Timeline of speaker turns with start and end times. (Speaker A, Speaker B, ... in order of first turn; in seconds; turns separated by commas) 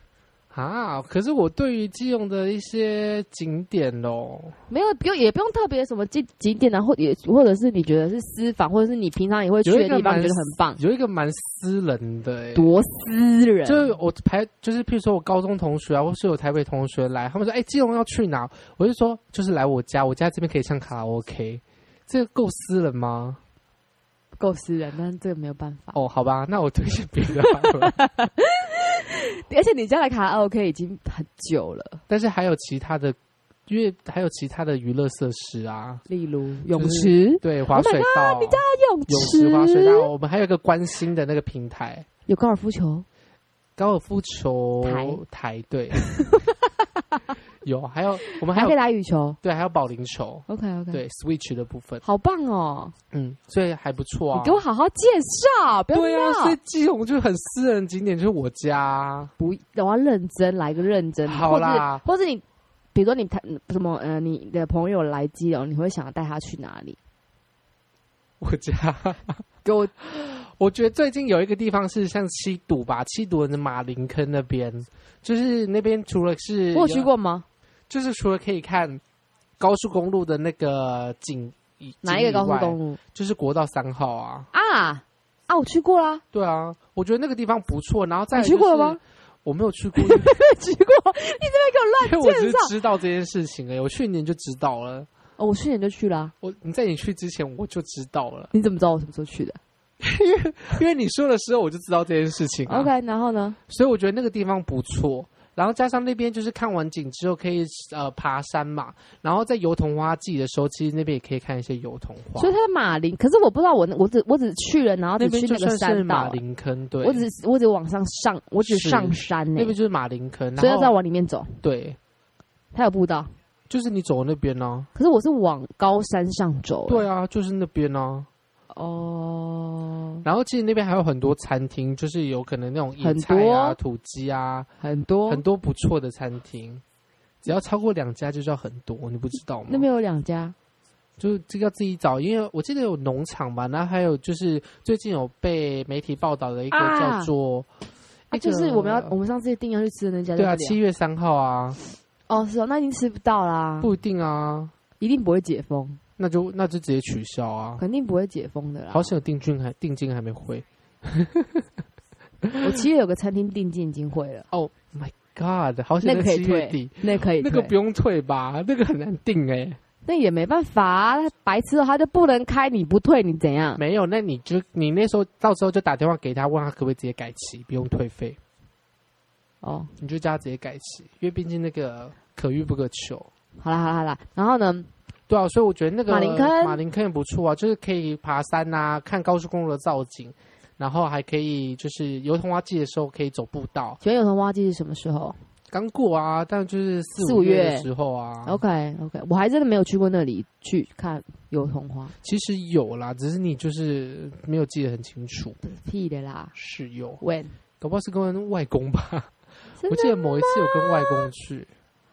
Speaker A: 0.5-4.5, Speaker B: 4.7-10.8, Speaker A: 9.6-12.7, Speaker B: 12.5-13.9, Speaker A: 13.7-23.4, Speaker B: 24.4-26.0, Speaker A: 25.9-27.9, Speaker B: 27.3-32.0, Speaker A: 32.1-33.1, Speaker A: 33.7-36.0, Speaker B: 36.1-40.1, Speaker A: 36.7-42.0, Speaker B: 42.3-43.0, Speaker A: 43.8-46.0, Speaker B: 44.8-45.2, Speaker B: 45.9-47.3, Speaker A: 47.6-48.7, Speaker B: 48.3-49.4, Speaker A: 49.4-52.0, Speaker B: 50.5-51.0, Speaker B: 52.0-52.9, Speaker A: 53.1-54.6, Speaker B: 54.3-56.6, Speaker A: 55.9-59.3, Speaker B: 59.4-62.4, Speaker A: 61.3-62.0, Speaker B: 62.9-67.0, Speaker A: 68.4-69.4, Speaker B: 69.6-69.9, Speaker A: 70.0-77.1, Speaker B: 76.7-77.4, Speaker A: 77.9-79.0, Speaker A: 79.6-84.5, Speaker B: 82.0-83.0, Speaker B: 84.5-86.2, Speaker A: 86.3-90.3, Speaker B: 88.3-89.0, Speaker B: 90.0-92.7, Speaker A: 92.0-95.1, Speaker B: 95.4-96.3, Speaker A: 96.4-98.5, Speaker B: 98.5-99.6, Speaker A: 100.0-102.9, Speaker B: 102.7-103.6, Speaker A: 103.7-112.5, Speaker B: 112.3-116.4, Speaker A: 115.2-117.2, Speaker B: 117.0-119.8, Speaker A: 118.6-120.9, Speaker B: 120.6-121.6, Speaker A: 121.6-122.0, Speaker B: 122.7-123.3, Speaker A: 123.7-124.9, Speaker B: 124.9-127.0, Speaker A: 126.9-128.3, Speaker B: 128.7-130.2, Speaker A: 130.2-134.7, Speaker B: 133.0-133.8, Speaker B: 134.8-135.4, Speaker A: 135.3-136.8, Speaker A: 137.4-139.9, Speaker B: 139.7-140.5, Speaker A: 141.2-147.7, Speaker B: 146.7-147.3, Speaker A: 148.3-149.1, Speaker B: 148.3-150.8, Speaker A: 150.3-151.8, Speaker B: 152.3-153.9, Speaker A: 153.8-154.7, Speaker B: 155.0-156.0, Speaker A: 156.2-157.8, Speaker B: 157.8-159.1, Speaker A: 158.9-161.7, Speaker B: 162.6-164.4, Speaker A: 164.5-169.8, Speaker B: 166.0-167.7, Speaker B: 170.0-173.8, Speaker A: 173.8-178.4, Speaker B: 179.6-179.9, Speaker A: 180.0-183.3, Speaker B: 183.6-184.9, Speaker A: 185.3-194.0, Speaker B: 186.1-186.8, Speaker B: 194.0-195.4, Speaker A: 195.7-198.6, Speaker B: 197.2-197.9, Speaker B: 198.4-202.1, Speaker A: 202.2-205.6, Speaker B: 205.6-206.5, Speaker A: 206.5-207.2, Speaker B: 207.2-207.5, Speaker A: 207.8-209.3, Speaker B: 209.8-211.3, Speaker A: 209.9-211.7